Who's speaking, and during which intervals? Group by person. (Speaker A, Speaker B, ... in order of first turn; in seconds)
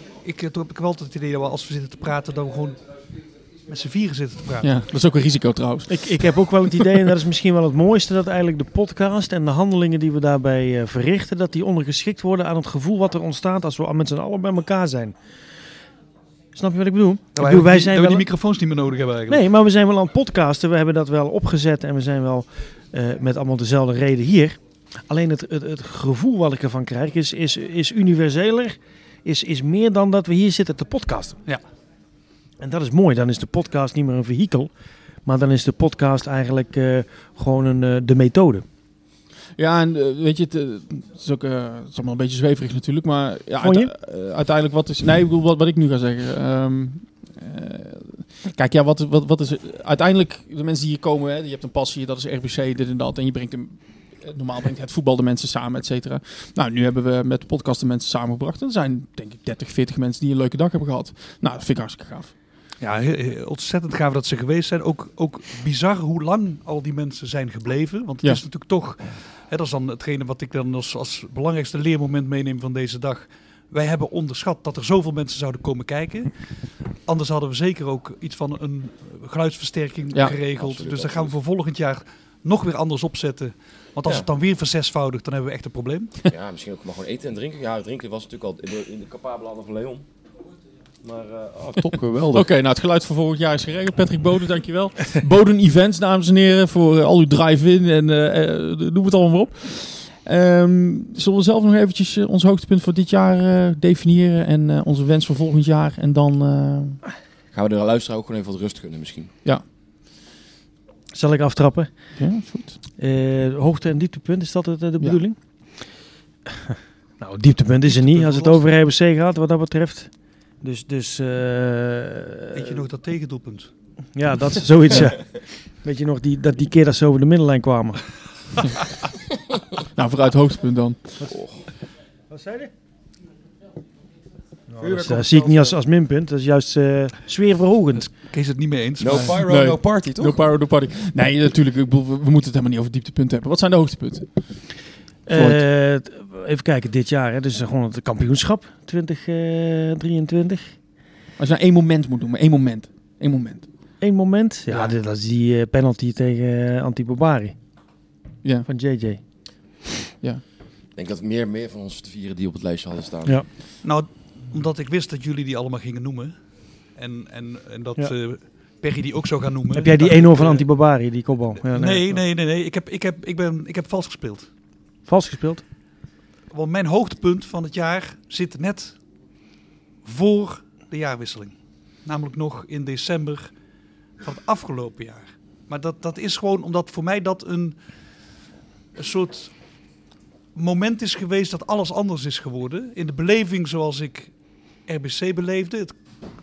Speaker A: 0.2-2.8, 3.7-4.8, 17.3-19.4, 62.8-76.3, 77.0-86.1, 117.8-118.6, 122.5-123.7, 138.3-139.3, 163.8-166.3, 166.9-170.6, 171.6-174.5, 176.5-179.0, 180.0-183.5, 184.2-187.8, 188.9-189.5, 190.5-194.3, 194.8-196.0
Speaker B: 4.6-7.0, 39.6-62.3, 92.3-107.0, 112.2-112.8, 129.8-131.3, 139.1-144.3, 145.3-145.6, 151.4-153.7
Speaker C: 5.9-15.1, 16.5-18.3, 19.3-31.4, 32.6-34.7, 35.2-38.6, 43.6-43.9, 111.1-111.9, 113.0-115.3, 117.2-120.1, 120.6-122.8, 124.1-128.1, 132.3-132.7, 134.7-138.1, 145.3-150.7, 154.0-157.5, 158.7-159.2, 169.7-172.2, 175.1-175.6
Speaker D: 80.5-81.4, 86.3-90.0, 91.0-92.5, 107.5-109.3, 131.3-131.6, 134.8-135.8, 139.0-140.4, 160.9-163.3